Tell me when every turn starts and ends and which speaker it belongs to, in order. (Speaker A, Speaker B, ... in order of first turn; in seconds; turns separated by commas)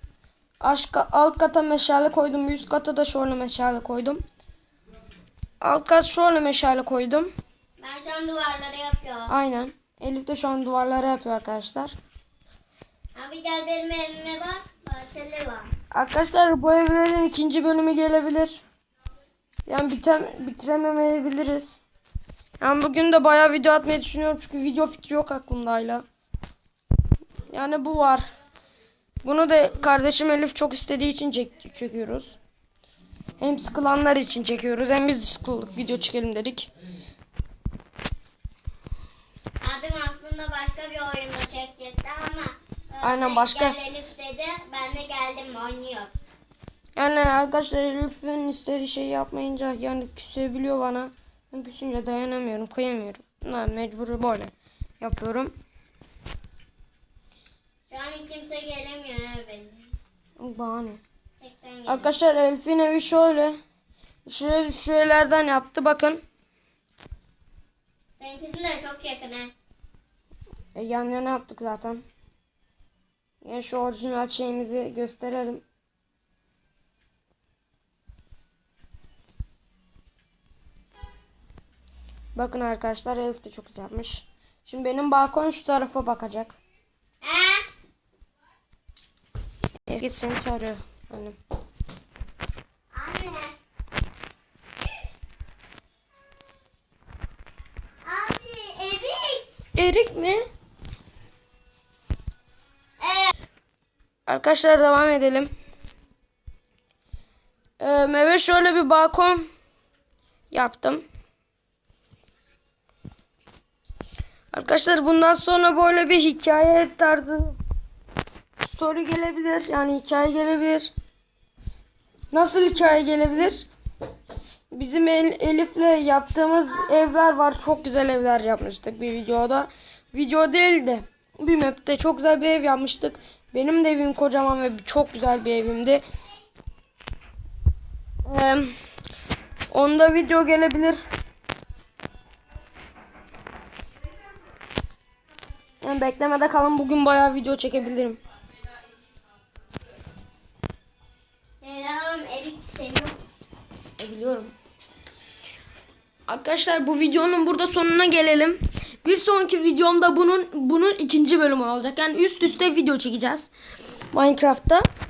Speaker A: 0.6-4.2, Speaker A: 5.6-7.3, Speaker B: 7.8-9.3, Speaker A: 9.3-11.9, Speaker B: 13.2-15.7, Speaker A: 15.9-18.6, Speaker A: 19.7-21.8, Speaker A: 22.6-26.0, Speaker A: 27.5-28.2, Speaker A: 29.2-32.4, Speaker A: 33.4-36.7, Speaker B: 39.6-46.1, Speaker A: 43.0-43.8, Speaker A: 47.0-55.5, Speaker B: 57.9-59.9, Speaker A: 60.4-61.0, Speaker B: 61.4-62.2, Speaker A: 61.9-63.6, Speaker A: 64.3-66.2, Speaker B: 68.2-69.5, Speaker A: 70.8-72.0, Speaker A: 73.4-75.6, Speaker A: 82.3-86.6, Speaker B: 87.2-87.7, Speaker A: 89.9-91.4, Speaker B: 92.9-93.5, Speaker B: 98.0-99.6, Speaker A: 99.8-100.4, Speaker B: 103.0-103.3, Speaker A: 104.3-105.5, Speaker A: 107.8-109.5, Speaker A: 110.5-111.0, Speaker A: 114.5-117.6, Speaker A: 118.6-120.9, Speaker A: 122.3-123.7, Speaker A: 124.7-136.0, Speaker A: 138.3-138.7, Speaker A: 139.7-141.0, Speaker A: 145.8-148.2, Speaker B: 151.6-153.2, Speaker A: 154.0-154.5, Speaker A: 156.3-163.5, Speaker A: 164.1-164.9